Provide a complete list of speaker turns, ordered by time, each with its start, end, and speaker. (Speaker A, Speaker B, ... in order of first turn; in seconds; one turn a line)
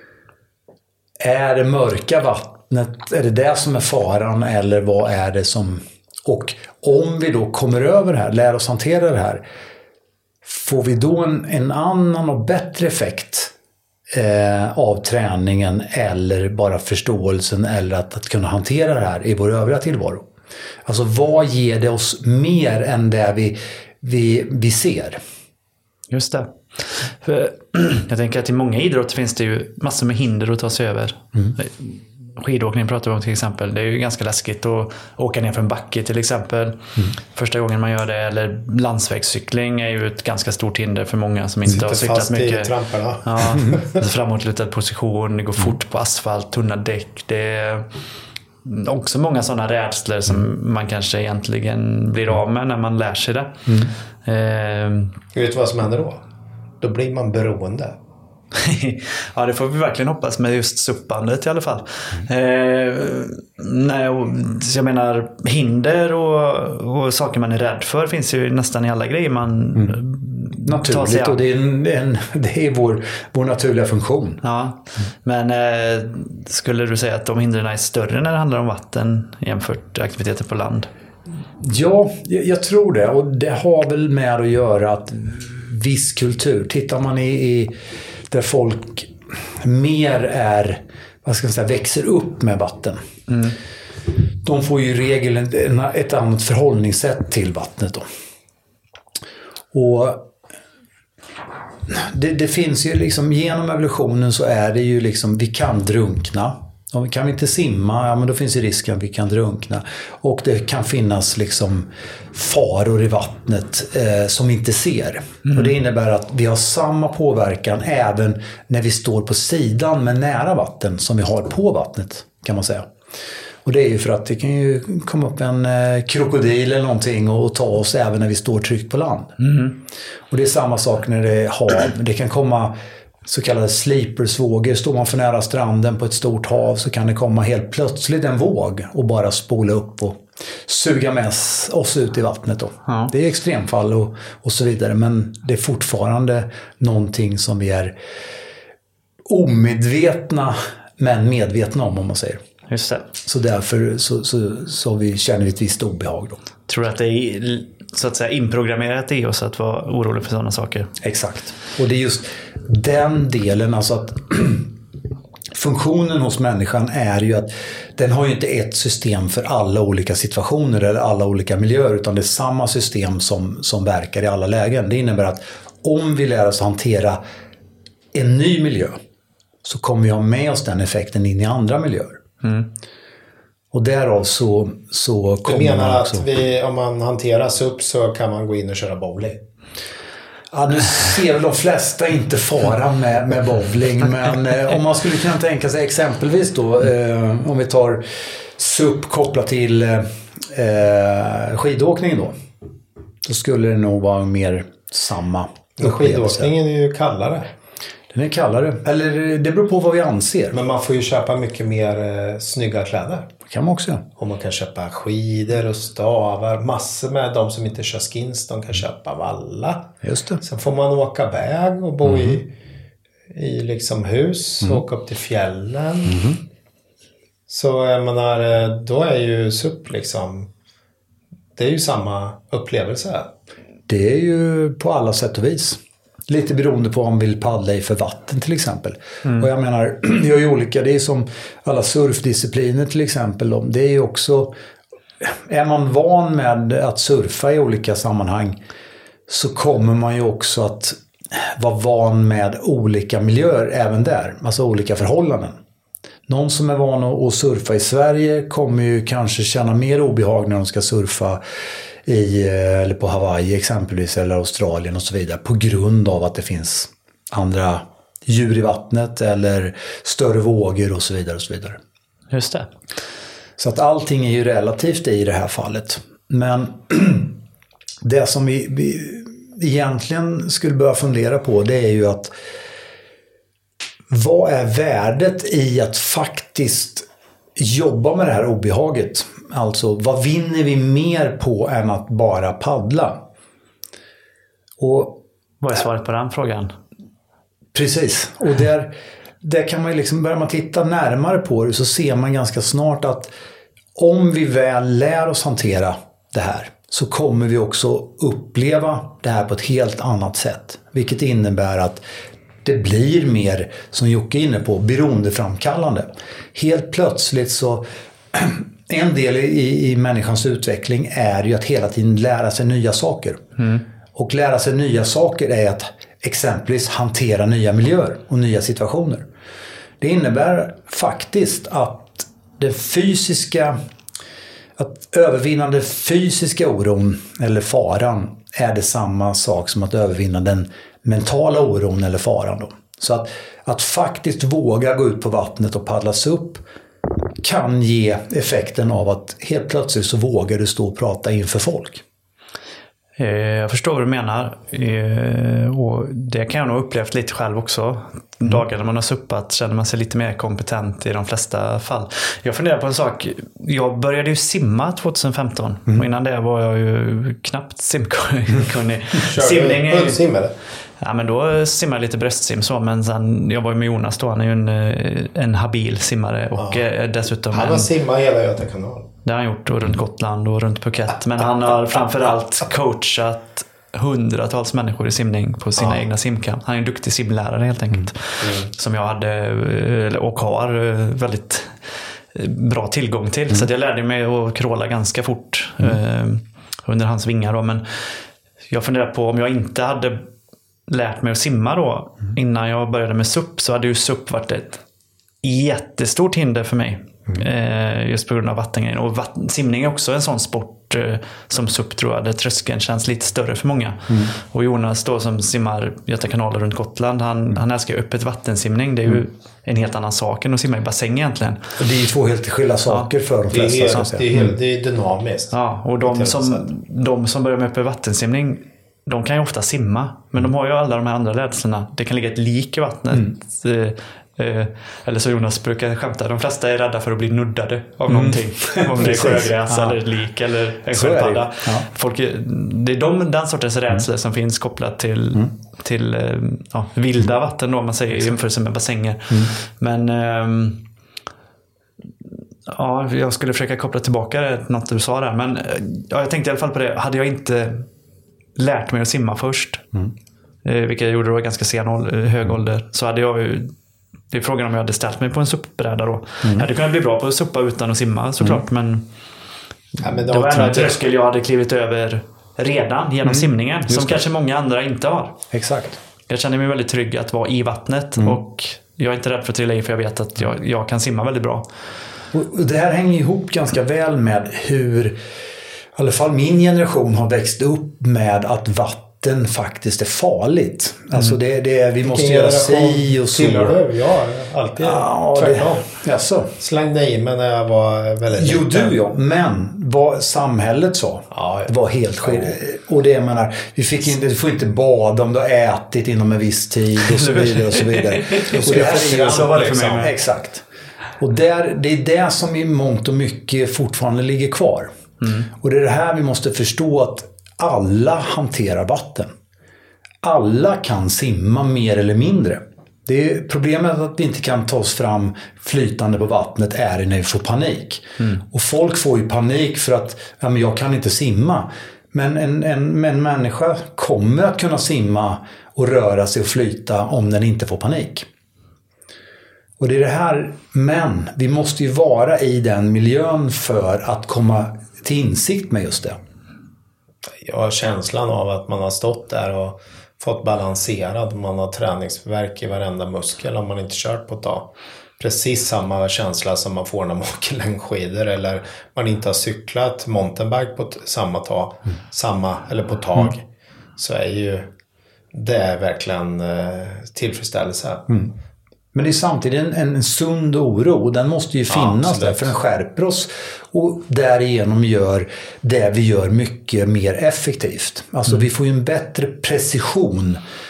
Speaker A: 1.2-9.4
Speaker A: 10.4-13.5
Speaker A: 14.1-20.2
Speaker A: 20.8-25.2
Speaker B: 26.1-42.7
Speaker C: 41.7-44.0
Speaker B: 43.2-47.9
Speaker B: 48.6-55.2
Speaker C: 55.3-56.2
Speaker C: 56.8-58.0
Speaker B: 58.5-71.4
Speaker A: 70.6-74.4
Speaker B: 74.4-80.9
Speaker A: 81.6-87.7
Speaker A: 88.3-93.0
Speaker B: 93.3-93.5
Speaker A: 94.4-98.0
Speaker A: 99.7-100.3
Speaker A: 101.9-122.9
Speaker B: 115.4-115.7
Speaker A: 123.6-129.3
Speaker B: 129.4-129.7
Speaker A: 130.3-147.9
Speaker A: 149.3-152.4
Speaker B: 152.7-153.0
Speaker A: 153.2-156.4
Speaker B: 156.7-160.9
Speaker A: 161.0-164.7
Speaker A: 165.5-177.2
Speaker A: 178.1-179.0
Speaker A: 179.6-182.2
Speaker A: 183.7-186.2
Speaker C: 185.4-189.4
Speaker A: 190.5-202.4
Speaker A: 203.2-206.5
Speaker C: 205.8-207.5
Speaker A: 208.1-210.5
Speaker C: 210.5-213.3
Speaker A: 213.5-214.0
Speaker C: 214.2-222.5
Speaker A: 220.0-220.4
Speaker A: 222.0-222.4
Speaker C: 223.3-226.2
Speaker A: 226.1-226.4
Speaker C: 227.5-230.5
Speaker C: 231.6-233.3
Speaker A: 233.9-244.5
Speaker A: 245.2-248.6
Speaker A: 249.3-255.6
Speaker A: 256.3-261.4
Speaker A: 262.0-271.8
Speaker B: 272.3-272.7
Speaker A: 273.6-277.4
Speaker A: 278.0-282.3
Speaker A: 284.1-293.2
Speaker A: 294.8-295.2
Speaker B: 295.6-296.7
Speaker A: 297.7-303.3
Speaker A: 303.9-312.0
Speaker A: 312.6-323.4
Speaker B: 323.6-323.8
Speaker A: 324.1-329.2
Speaker A: 330.0-333.8
Speaker A: 334.8-346.6
Speaker A: 347.4-352.0
Speaker B: 353.2-370.2
Speaker C: 369.2-370.5
Speaker B: 371.0-377.9
Speaker C: 377.5-379.1
Speaker B: 379.2-398.1
Speaker C: 388.4-388.7
Speaker B: 398.7-400.3
Speaker B: 400.9-404.8
Speaker B: 405.4-421.6
Speaker A: 421.8-424.5
Speaker C: 423.5-426.7
Speaker B: 425.5-450.8
Speaker A: 438.1-440.0
Speaker A: 440.9-441.9
Speaker B: 452.7-457.9
Speaker B: 458.6-459.8
Speaker B: 460.6-463.7
Speaker B: 464.3-469.1
Speaker C: 470.0-471.0
Speaker B: 470.2-475.4
Speaker A: 473.2-474.2
Speaker A: 475.5-476.0
Speaker B: 476.3-481.7
Speaker A: 482.3-485.1
Speaker A: 485.9-493.8
Speaker C: 492.1-496.0
Speaker A: 494.8-496.5
Speaker C: 496.6-498.9
Speaker A: 498.3-510.6
Speaker C: 501.3-502.6
Speaker B: 507.0-510.1
Speaker C: 508.5-510.1
Speaker A: 511.2-514.9
Speaker B: 515.2-515.5
Speaker A: 515.4-519.3
Speaker A: 520.2-538.3
Speaker A: 539.8-546.2
Speaker C: 547.4-563.4
Speaker C: 564.0-564.7
Speaker C: 565.3-568.0
Speaker A: 568.9-580.4
Speaker C: 571.7-572.5